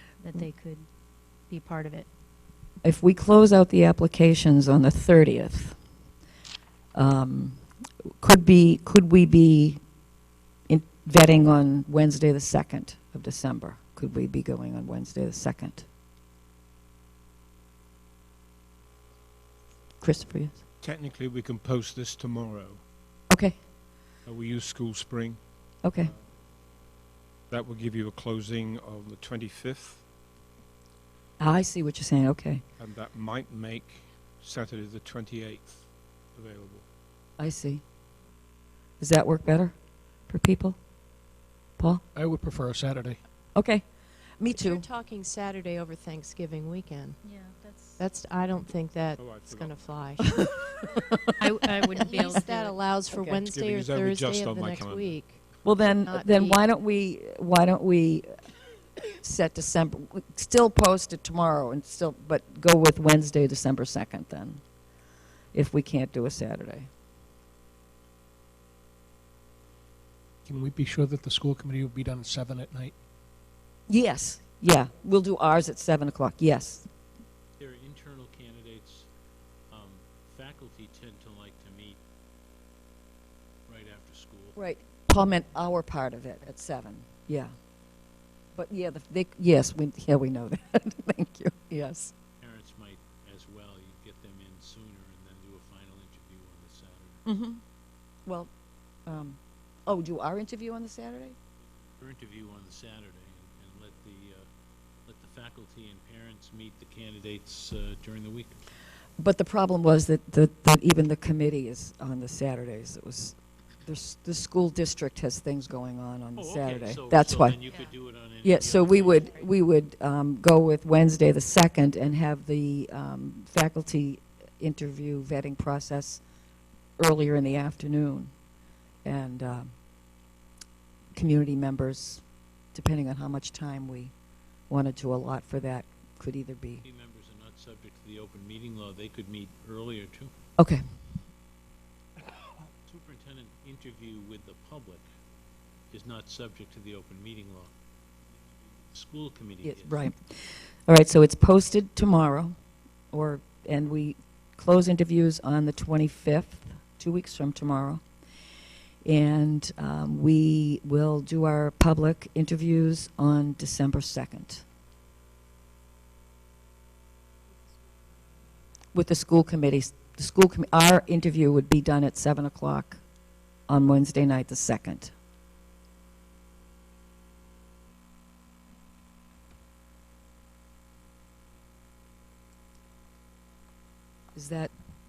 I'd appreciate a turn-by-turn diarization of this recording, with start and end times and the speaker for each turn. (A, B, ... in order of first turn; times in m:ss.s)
0:00.2-0:00.9 A
0:01.5-0:02.1 A
0:02.8-0:05.8 B
0:06.9-0:07.6 B
0:08.2-0:09.8 B
0:10.7-0:15.9 B
0:20.0-0:20.6 B
0:20.8-0:22.8 C
0:23.3-0:23.6 B
0:24.2-0:26.2 C
0:25.8-0:26.1 B
0:27.5-0:30.1 C
0:31.4-0:32.6 B
0:32.8-0:36.9 C
0:37.4-0:37.8 B
0:39.0-0:39.8 B
0:40.3-0:40.8 B
0:41.8-0:42.0 B
0:42.1-0:43.2 D
0:43.5-0:44.9 B
0:44.5-0:47.2 E
0:47.2-0:48.0 A
0:48.0-0:50.5 E
0:49.2-0:49.9 C
0:50.4-0:51.3 B
0:51.4-0:52.8 A
0:52.0-0:56.6 E
0:53.2-0:55.2 C
0:55.6-0:58.5 B
0:59.0-1:04.6 B
1:05.5-1:06.9 B
1:10.5-1:13.0 D
1:13.9-1:16.9 B
1:17.6-1:19.1 F
1:19.7-1:22.0 F
1:23.7-1:24.6 F
1:24.6-1:27.5 B
1:28.6-1:32.1 B
1:32.4-1:37.2 F
1:37.2-1:37.6 B
1:38.2-1:38.5 B
1:39.1-1:41.4 B
1:42.0-1:44.5 F
1:45.0-1:48.6 F
1:49.2-1:57.6 B
1:56.4-1:59.3 F
1:58.4-2:06.2 B
2:07.0-2:08.3 B
2:09.0-2:09.7 B
2:11.2-2:14.1 B
2:14.7-2:16.8 B
2:16.8-2:20.3 F
2:20.6-2:20.8 B
2:22.9-2:25.1 F
2:25.9-2:27.7 F
2:28.9-2:30.0 F
2:29.6-2:32.6 B
2:33.1-2:38.0 B
2:39.0-2:44.6 B
2:48.9-2:53.0 B
2:53.7-2:55.1 B
3:04.4-3:04.7 B